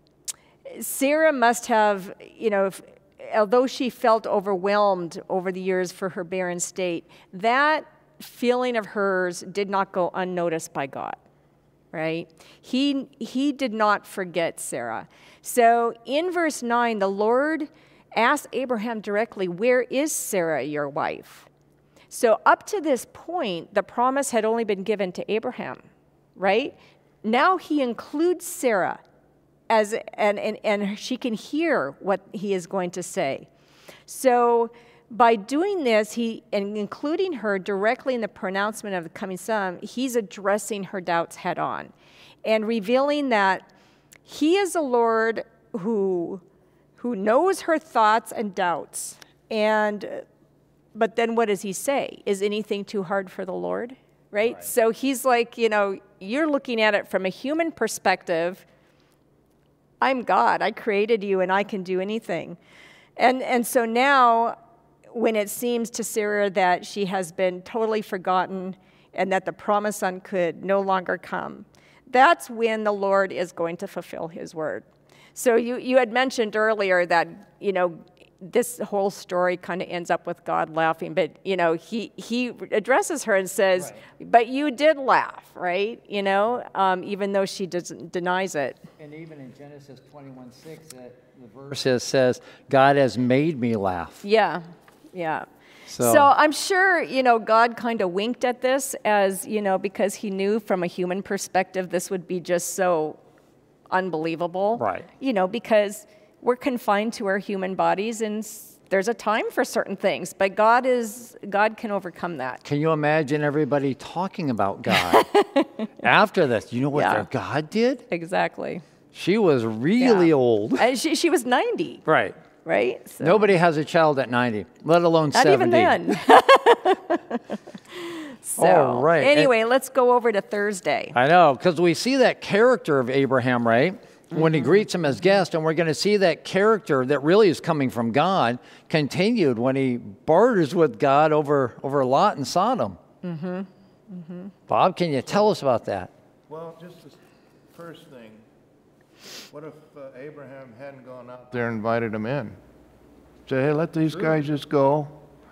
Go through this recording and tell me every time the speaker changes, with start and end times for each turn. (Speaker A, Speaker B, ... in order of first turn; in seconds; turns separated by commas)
Speaker A: 0.7-11.2, Speaker A: 11.9-21.5, Speaker A: 22.1-25.8, Speaker A: 26.4-29.0, Speaker A: 29.7-33.5, Speaker A: 34.1-41.9, Speaker A: 42.4-43.7, Speaker A: 44.3-46.4, Speaker A: 47.0-50.2, Speaker A: 50.9-58.6, Speaker A: 60.0-62.6, Speaker A: 63.2-64.6, Speaker A: 65.1-88.8, Speaker B: 89.0-94.2, Speaker A: 94.2-95.5, Speaker B: 95.9-96.3, Speaker A: 96.0-103.2, Speaker A: 103.9-112.6, Speaker B: 104.8-105.1, Speaker B: 112.6-115.3, Speaker A: 114.9-115.9, Speaker B: 116.0-118.0, Speaker A: 116.9-117.3, Speaker A: 118.1-118.8, Speaker B: 119.1-120.9, Speaker A: 120.0-122.0, Speaker B: 122.0-122.4, Speaker A: 122.6-123.5, Speaker B: 123.2-126.2, Speaker A: 125.3-131.1, Speaker B: 128.6-129.5, Speaker B: 131.1-143.0, Speaker A: 143.2-144.5, Speaker B: 144.7-146.1, Speaker C: 146.5-147.2, Speaker C: 147.7-148.4, Speaker C: 149.5-152.6, Speaker C: 153.5-155.2